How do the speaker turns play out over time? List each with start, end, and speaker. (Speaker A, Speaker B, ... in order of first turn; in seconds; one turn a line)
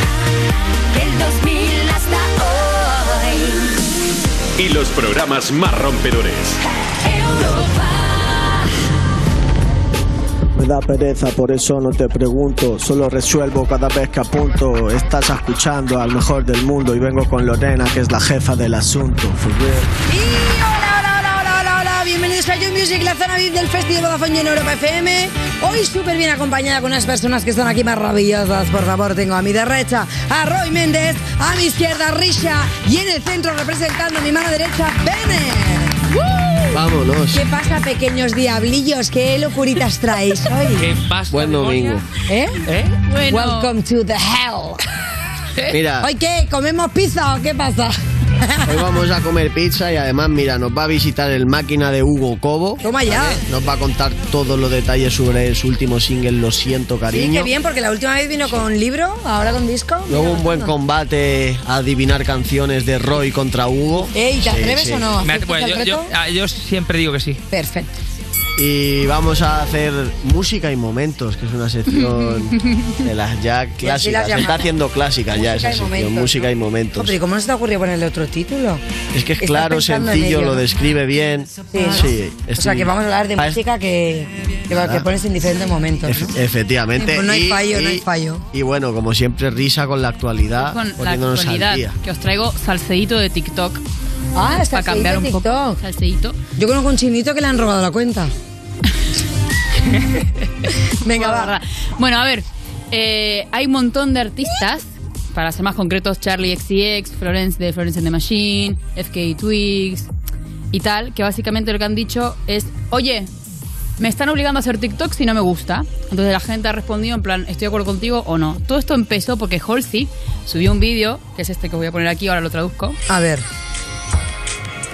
Speaker A: 1.0-3.2
Speaker B: 4.6-6.6
Speaker C: 10.6-19.9
Speaker D: 20.1-36.0
Speaker E: 36.1-36.7
Speaker F: 36.7-37.4
Speaker D: 37.3-40.9
Speaker G: 40.7-42.0
Speaker F: 41.3-42.0
Speaker D: 42.3-42.6
Speaker G: 42.6-43.0
Speaker E: 43.1-43.7
Speaker D: 43.3-44.8
Speaker F: 45.7-46.0
Speaker D: 46.0-48.8
Speaker F: 48.7-57.5
Speaker D: 52.8-53.4
Speaker D: 57.1-60.7
Speaker F: 60.1-65.0
Speaker D: 64.1-66.1
Speaker G: 65.2-67.4
Speaker D: 67.5-67.9
Speaker F: 68.6-77.1
Speaker E: 71.9-73.0
Speaker D: 73.8-74.7
Speaker D: 75.3-78.8
Speaker F: 79.1-83.6
Speaker D: 79.4-80.6
Speaker D: 81.7-86.3
Speaker F: 84.8-85.0
Speaker F: 86.1-91.9
Speaker D: 87.0-88.5
Speaker E: 90.6-93.8
Speaker D: 94.3-95.8
Speaker E: 94.7-96.3
Speaker D: 96.6-98.3
Speaker D: 101.0-101.5
Speaker E: 101.1-110.1
Speaker E: 110.7-113.3
Speaker E: 114.0-123.0
Speaker D: 123.1-123.4